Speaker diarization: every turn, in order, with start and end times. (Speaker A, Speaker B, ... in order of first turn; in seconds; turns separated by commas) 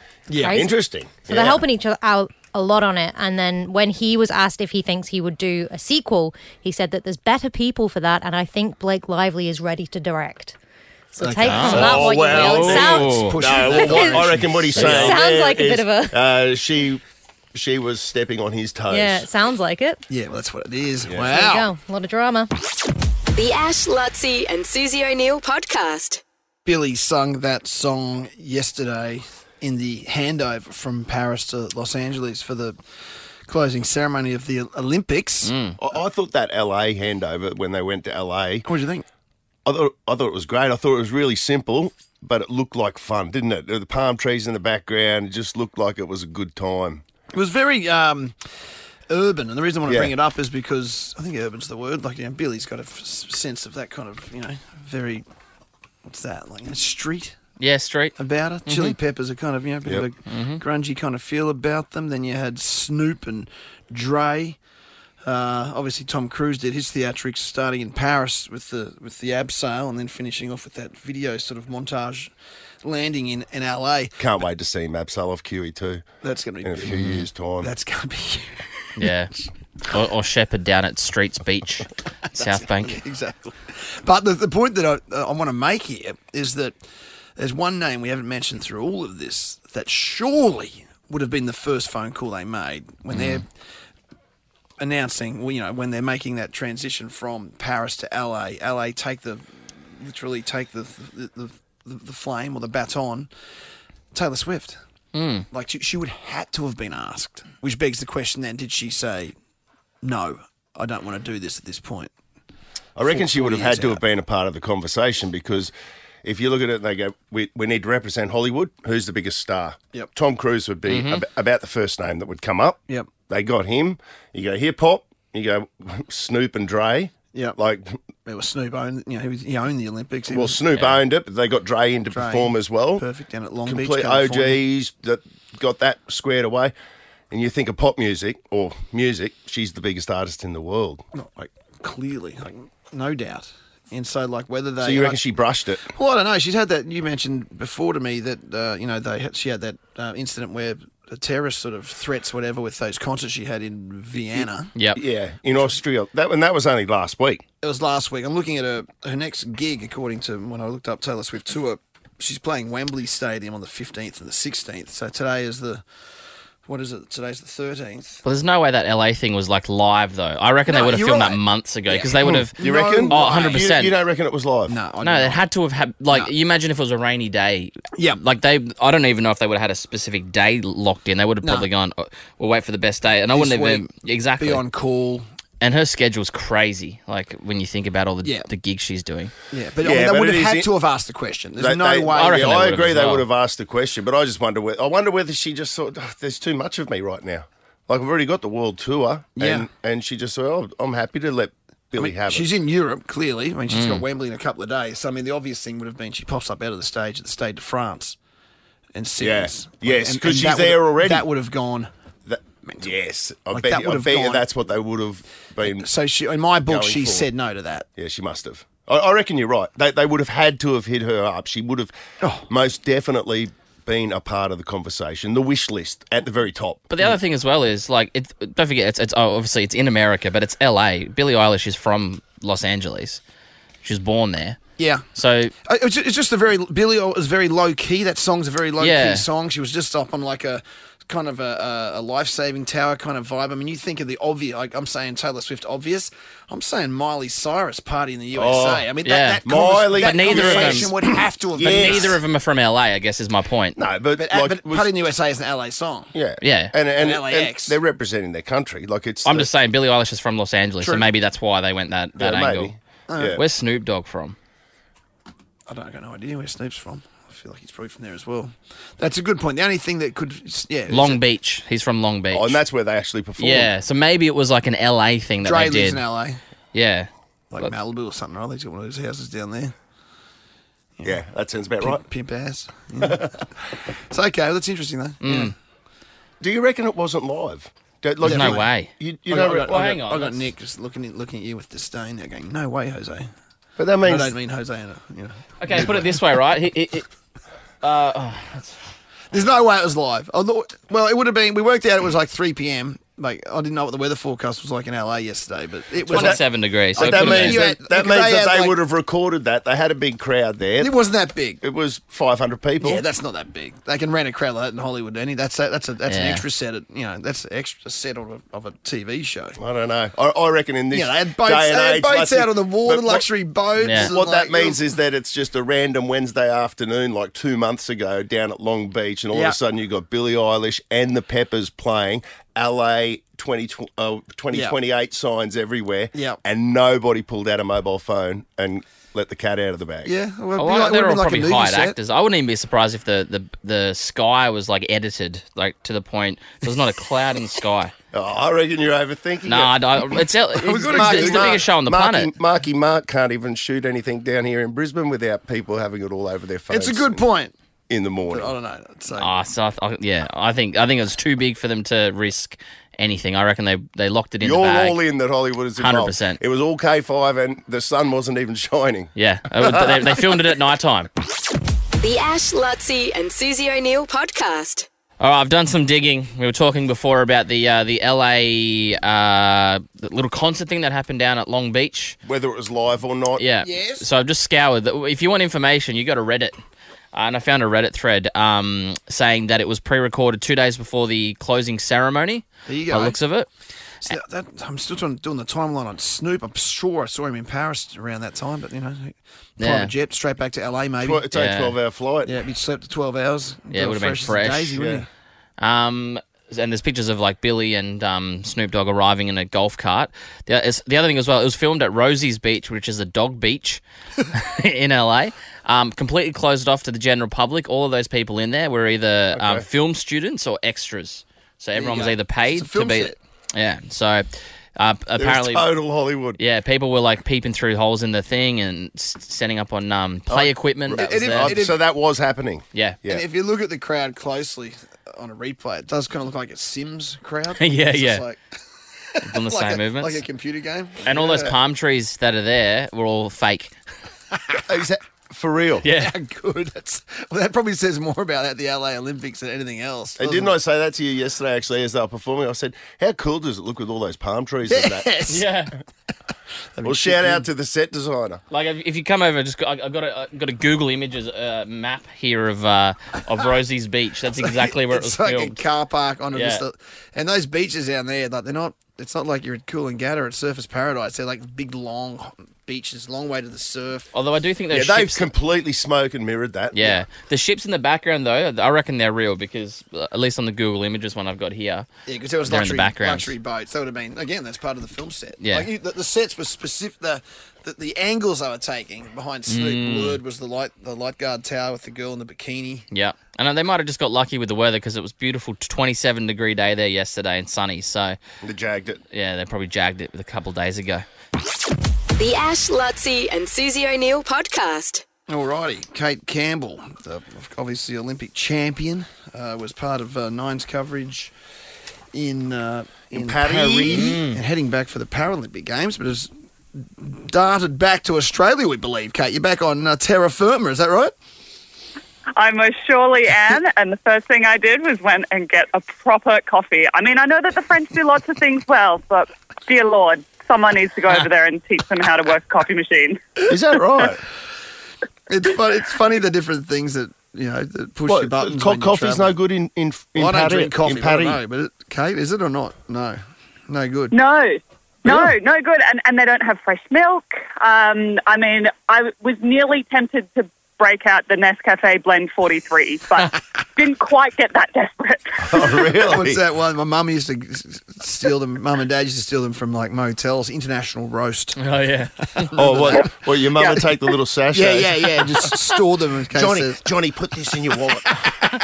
Speaker A: 0.3-0.7, Speaker B: 0.4-10.6, Speaker C: 0.4-1.6, Speaker B: 11.1-16.2, Speaker A: 11.2-15.1, Speaker D: 11.4-13.4, Speaker C: 11.7-17.0, Speaker D: 14.7-15.1, Speaker C: 17.5-19.3, Speaker B: 18.9-20.0, Speaker A: 20.1-21.7, Speaker C: 21.1-21.3, Speaker B: 21.2-22.5, Speaker E: 23.3-26.2, Speaker A: 26.6-35.5, Speaker D: 35.4-35.8, Speaker C: 35.8-38.6, Speaker A: 38.6-39.0, Speaker C: 39.6-47.0, Speaker A: 47.3-55.2, Speaker C: 49.9-50.1, Speaker A: 56.0-57.4, Speaker D: 57.6-59.0, Speaker A: 58.2-64.6, Speaker D: 60.3-60.6, Speaker A: 65.2-74.2, Speaker C: 74.2-76.1, Speaker A: 76.2-78.9, Speaker C: 76.6-77.7, Speaker D: 76.9-77.2, Speaker D: 79.0-79.3, Speaker D: 79.9-83.0, Speaker A: 82.3-86.8, Speaker A: 87.3-93.5, Speaker D: 93.1-93.4, Speaker A: 94.8-103.3, Speaker A: 104.1-104.8, Speaker D: 105.1-105.4, Speaker A: 105.5-109.3, Speaker A: 110.0-112.1, Speaker C: 113.0-115.7, Speaker A: 113.0-114.0, Speaker C: 116.2-128.0, Speaker D: 120.9-121.2, Speaker A: 128.2-130.6, Speaker C: 130.3-133.0, Speaker A: 132.1-134.6, Speaker C: 133.7-136.7, Speaker C: 137.3-141.1, Speaker A: 141.1-145.2, Speaker C: 144.8-145.8, Speaker A: 145.9-154.7, Speaker C: 154.3-157.4, Speaker A: 157.6-165.9, Speaker A: 166.6-168.2, Speaker D: 168.2-173.9, Speaker A: 170.7-173.7, Speaker C: 172.6-174.7, Speaker A: 174.7-175.4, Speaker D: 175.0-184.6, Speaker A: 181.4-181.7, Speaker A: 183.3-185.2, Speaker D: 185.6-189.3, Speaker A: 188.2-188.5, Speaker A: 189.5-192.8, Speaker C: 189.8-190.7, Speaker C: 191.6-202.5, Speaker D: 192.2-193.2, Speaker A: 199.4-199.7, Speaker A: 202.0-208.2, Speaker D: 203.7-204.0, Speaker A: 208.9-211.9, Speaker C: 209.2-211.2, Speaker C: 212.3-215.9, Speaker A: 212.6-212.9, Speaker A: 213.5-214.4, Speaker A: 215.6-217.9, Speaker C: 216.7-217.3, Speaker C: 217.9-221.9, Speaker C: 222.5-226.9, Speaker D: 226.9-233.2, Speaker D: 233.8-235.5, Speaker A: 234.8-235.0, Speaker A: 235.7-252.2, Speaker D: 238.8-239.2, Speaker C: 248.3-248.8, Speaker D: 249.0-250.9, Speaker C: 249.4-252.2, Speaker D: 251.6-253.8, Speaker C: 253.8-254.9, Speaker A: 254.2-256.1, Speaker C: 256.1-259.5, Speaker D: 256.4-256.7, Speaker A: 256.9-257.8, Speaker D: 259.2-262.7, Speaker C: 262.2-263.4, Speaker A: 263.1-263.4, Speaker D: 263.4-264.4, Speaker A: 265.7-271.2, Speaker D: 270.9-272.6, Speaker C: 272.3-273.7, Speaker D: 273.4-276.0, Speaker A: 275.4-276.4, Speaker D: 276.7-277.7, Speaker A: 277.5-279.7, Speaker C: 281.0-282.0, Speaker A: 281.8-285.5, Speaker D: 285.2-285.5, Speaker C: 286.4-289.9, Speaker A: 288.2-288.6, Speaker D: 288.2-290.5, Speaker A: 289.3-293.3, Speaker C: 293.8-294.3, Speaker A: 294.0-296.1, Speaker D: 295.6-297.1, Speaker D: 297.8-298.8, Speaker A: 299.3-306.4, Speaker D: 306.0-307.6, Speaker C: 306.1-306.4, Speaker A: 306.9-308.8, Speaker C: 307.0-310.9, Speaker A: 310.8-311.6, Speaker C: 311.6-313.0, Speaker A: 312.8-319.6, Speaker D: 316.1-316.4, Speaker C: 319.6-323.2, Speaker A: 320.9-324.8, Speaker D: 323.8-324.1, Speaker C: 324.0-340.1, Speaker A: 340.0-342.0, Speaker D: 340.6-347.9, Speaker C: 348.1-349.7, Speaker D: 349.5-352.3, Speaker A: 350.6-351.6, Speaker C: 350.6-357.2, Speaker A: 356.7-357.5, Speaker C: 357.9-358.5, Speaker A: 358.3-359.3, Speaker D: 359.2-365.0, Speaker C: 364.4-369.1, Speaker D: 365.8-366.4, Speaker D: 369.1-371.1, Speaker C: 369.6-370.2, Speaker E: 372.0-374.9, Speaker D: 375.2-382.1, Speaker C: 382.2-383.4, Speaker D: 383.4-386.5, Speaker A: 383.6-384.0, Speaker D: 387.1-393.5, Speaker A: 392.7-393.2, Speaker A: 394.0-401.2, Speaker D: 399.6-399.9, Speaker C: 401.0-402.3, Speaker D: 401.3-401.8, Speaker A: 402.2-405.1, Speaker D: 403.7-404.8, Speaker C: 404.8-405.0, Speaker D: 405.6-413.8, Speaker D: 414.3-425.7, Speaker C: 419.3-419.6, Speaker A: 421.7-423.2, Speaker C: 425.1-426.4, Speaker D: 426.4-431.6, Speaker C: 430.3-433.2, Speaker A: 430.9-431.8, Speaker D: 432.7-433.0, Speaker A: 433.1-438.6, Speaker D: 437.6-438.2, Speaker A: 439.1-441.5, Speaker D: 439.2-440.2, Speaker D: 441.0-443.7, Speaker A: 444.3-444.6, Speaker C: 444.7-445.9, Speaker D: 445.8-446.1, Speaker A: 445.9-450.5, Speaker C: 450.2-455.1, Speaker A: 454.7-455.4, Speaker D: 455.3-455.7, Speaker A: 456.7-457.4, Speaker C: 456.8-458.4, Speaker D: 458.5-465.6, Speaker A: 464.4-474.1, Speaker D: 466.3-466.6, Speaker D: 474.1-475.3, Speaker C: 474.7-476.9, Speaker D: 476.7-481.9, Speaker A: 482.1-492.9, Speaker D: 482.4-483.3, Speaker D: 485.4-485.7, Speaker D: 489.5-490.2, Speaker D: 492.9-498.2, Speaker C: 498.4-499.0, Speaker D: 499.1-501.1, Speaker E: 502.2-505.0, Speaker A: 505.3-511.3, Speaker A: 512.1-516.3, Speaker C: 513.1-514.2, Speaker D: 513.9-514.4, Speaker A: 517.0-521.1, Speaker F: 522.4-533.2, Speaker C: 533.5-534.2, Speaker A: 535.3-539.4, Speaker C: 538.1-541.4, Speaker A: 540.2-544.1, Speaker F: 544.1-555.8, Speaker C: 555.4-556.4, Speaker A: 555.9-561.6, Speaker D: 561.6-563.0, Speaker A: 562.5-563.9, Speaker C: 562.5-565.5, Speaker A: 564.5-566.8, Speaker C: 566.3-568.0